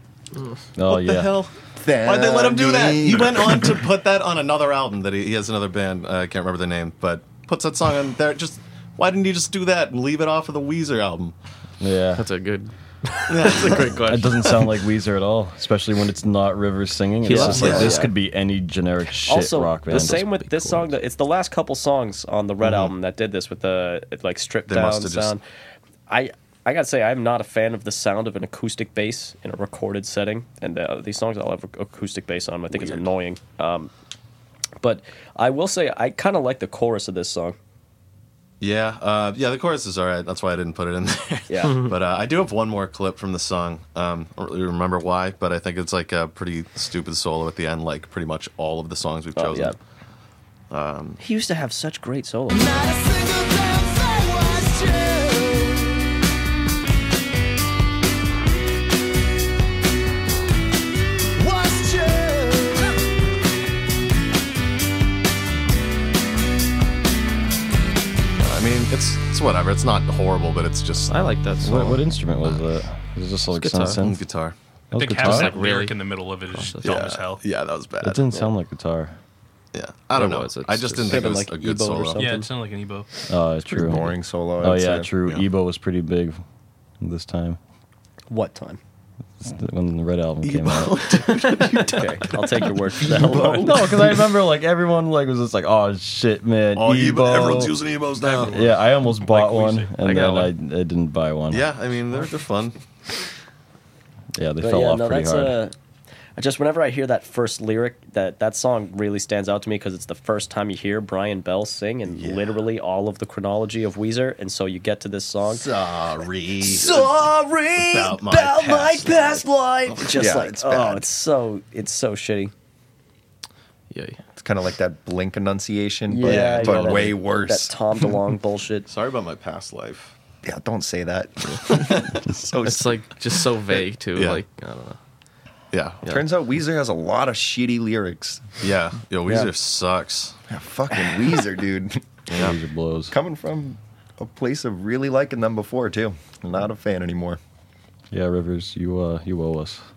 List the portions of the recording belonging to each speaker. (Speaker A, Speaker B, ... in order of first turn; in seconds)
Speaker A: 0.8-1.4, 11.8-12.3, 14.0-20.3, 71.6-74.2, 74.9-75.6, 78.0-79.2, 83.3-86.4, 87.0-87.6, 89.4-91.2, 93.5-97.9, 98.4-101.7, 104.3-105.6, 142.3-143.2, 148.1-149.8
Speaker B: 0.9-11.3, 13.3-14.2, 17.3-18.0, 22.6-22.9, 24.7-25.4, 38.6-49.8, 50.7-51.2, 68.4-72.0, 74.0-74.5, 76.8-78.3, 79.7-82.3, 90.4-92.4, 96.8-98.8, 101.5-102.8, 112.1-112.5, 115.5-117.2, 117.8-120.2, 126.2-127.2, 128.9-130.1, 131.7-132.0, 134.1-134.4, 135.7-136.1, 138.6-140.4, 142.3-142.6
Speaker C: 1.8-3.8, 83.7-85.1, 120.2-121.1, 124.4-127.7, 130.4-133.1, 136.1-138.5, 140.5-142.2, 143.1-147.4
Speaker D: 12.2-14.7, 17.2-18.1, 19.9-20.9, 41.6-41.9, 71.1-71.9, 73.5-74.0, 75.2-76.0, 76.5-77.1, 80.1-81.4, 100.0-100.5, 123.9-124.2, 132.6-135.0
Speaker E: 17.3-18.1, 19.3-25.4, 26.1-33.9, 34.8-37.6, 49.4-49.8, 51.2-52.8, 81.0-82.5, 88.3-88.8, 91.7-93.9, 104.6-105.7, 106.4-115.7, 116.6-122.5, 126.1-128.9
Speaker F: 52.5-56.0, 61.4-63.0
Speaker G: 74.9-77.4, 82.2-83.1, 99.3-99.9